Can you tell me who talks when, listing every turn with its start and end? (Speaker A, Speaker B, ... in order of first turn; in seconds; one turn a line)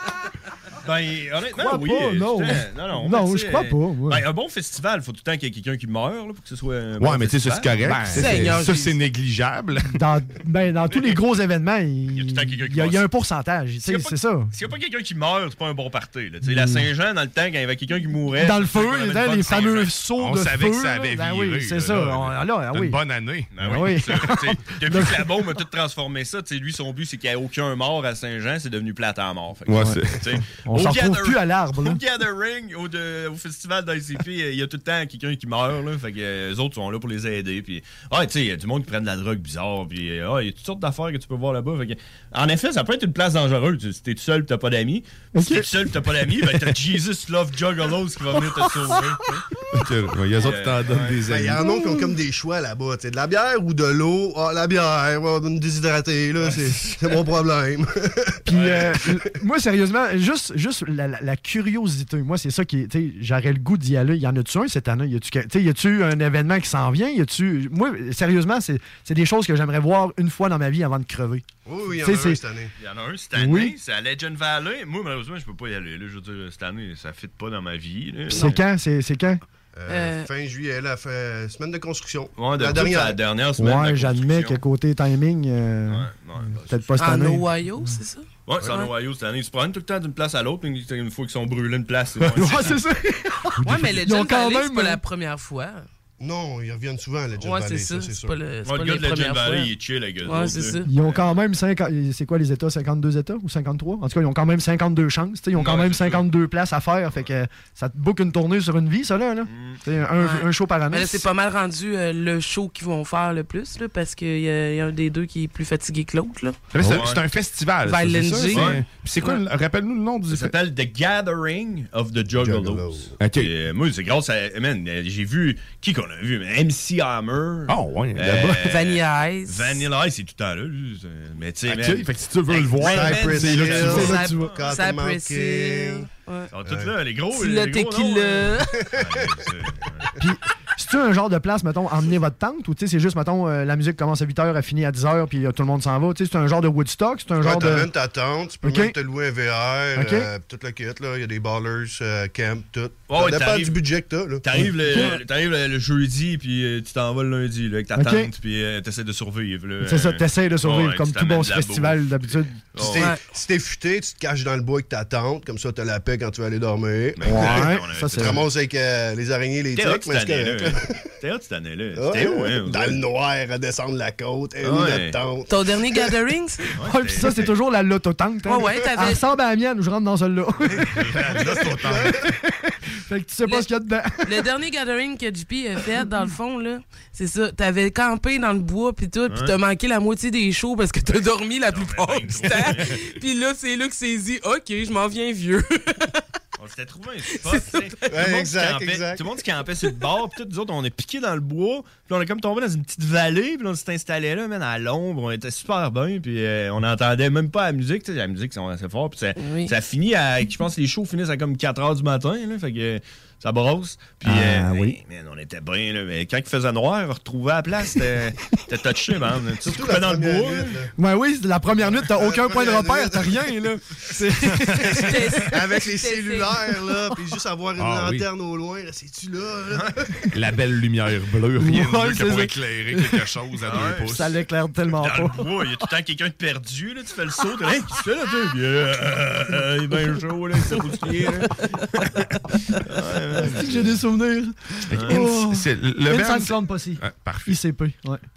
Speaker A: 0.8-8.0
Speaker B: 1.6-4.2
Speaker C: 7.0-10.0
Speaker B: 7.8-8.5
Speaker D: 8.1-9.0
Speaker B: 9.9-14.5
Speaker A: 10.9-11.2
Speaker A: 12.1-13.1
Speaker A: 13.8-20.0
Speaker B: 16.5-16.8
Speaker B: 18.4-23.0
Speaker C: 20.1-24.2
Speaker A: 23.5-49.4
Speaker B: 23.6-25.3
Speaker C: 29.7-30.3
Speaker B: 29.8-30.0
Speaker B: 30.6-32.0
Speaker B: 45.4-45.7
Speaker B: 48.4-49.0
Speaker C: 49.7-51.7
Speaker A: 50.4-51.2
Speaker E: 51.3-58.3
Speaker B: 51.6-52.1
Speaker A: 56.4-57.0
Speaker B: 58.5-71.4
Speaker A: 58.5-58.8
Speaker E: 71.7-72.7
Speaker B: 72.0-72.4
Speaker A: 72.8-78.6
Speaker B: 73.4-73.7
Speaker B: 78.3-79.4
Speaker E: 79.8-83.2
Speaker D: 79.9-80.3
Speaker A: 82.4-84.6
Speaker B: 83.6-87.5
Speaker A: 85.9-87.0
Speaker D: 87.0-88.9
Speaker A: 88.5-92.8
Speaker B: 92.2-95.0
Speaker D: 93.6-95.9
Speaker E: 96.2-98.4
Speaker D: 97.4-100.9
Speaker A: 98.7-101.4
Speaker B: 100.9-111.2
Speaker A: 105.5-106.3
Speaker A: 109.5-109.8
Speaker D: 110.2-116.6
Speaker C: 116.7-120.5
Speaker A: 116.8-117.2
Speaker D: 117.8-119.4
Speaker A: 118.5-118.8
Speaker A: 120.3-134.8
Speaker E: 122.4-123.1
Speaker C: 123.2-123.5
Speaker C: 127.7-128.7
Speaker D: 128.6-129.9
Speaker C: 131.7-134.1
Speaker E: 132.8-136.1
Speaker B: 133.6-134.5
Speaker D: 134.0-136.5
Speaker A: 136.5-140.1
Speaker E: 136.6-137.0
Speaker D: 137.3-138.7
Speaker E: 138.7-139.5
Speaker B: 140.2-147.9
Speaker E: 147.3-154.7
Speaker B: 148.6-148.9
Speaker B: 150.0-150.3
Speaker A: 153.1-153.8
Speaker A: 154.4-163.1
Speaker B: 154.6-155.2
Speaker B: 158.0-158.3
Speaker B: 159.8-163.1
Speaker E: 162.8-171.1
Speaker A: 167.2-168.5
Speaker B: 167.2-168.4
Speaker A: 169.8-173.0
Speaker E: 171.9-176.1
Speaker A: 174.6-175.2
Speaker D: 175.5-176.7
Speaker A: 176.8-177.5
Speaker B: 176.8-184.2
Speaker D: 178.4-179.2
Speaker A: 180.9-181.8
Speaker C: 181.3-182.2
Speaker E: 181.4-182.1
Speaker D: 184.2-196.1
Speaker A: 189.3-189.5
Speaker A: 191.7-193.0
Speaker A: 196.6-220.7
Speaker D: 197.3-198.1
Speaker E: 198.1-199.4
Speaker D: 209.4-209.8
Speaker B: 214.2-215.0
Speaker E: 219.6-220.9
Speaker B: 221.0-225.4
Speaker E: 222.1-223.4
Speaker E: 224.8-230.2
Speaker D: 225.0-226.7
Speaker C: 227.8-228.3
Speaker C: 230.3-234.4
Speaker B: 231.6-233.3
Speaker A: 233.6-234.2
Speaker B: 233.8-235.5
Speaker A: 234.9-242.1
Speaker A: 242.9-243.8
Speaker B: 243.4-248.2
Speaker C: 244.9-247.6
Speaker A: 244.9-245.3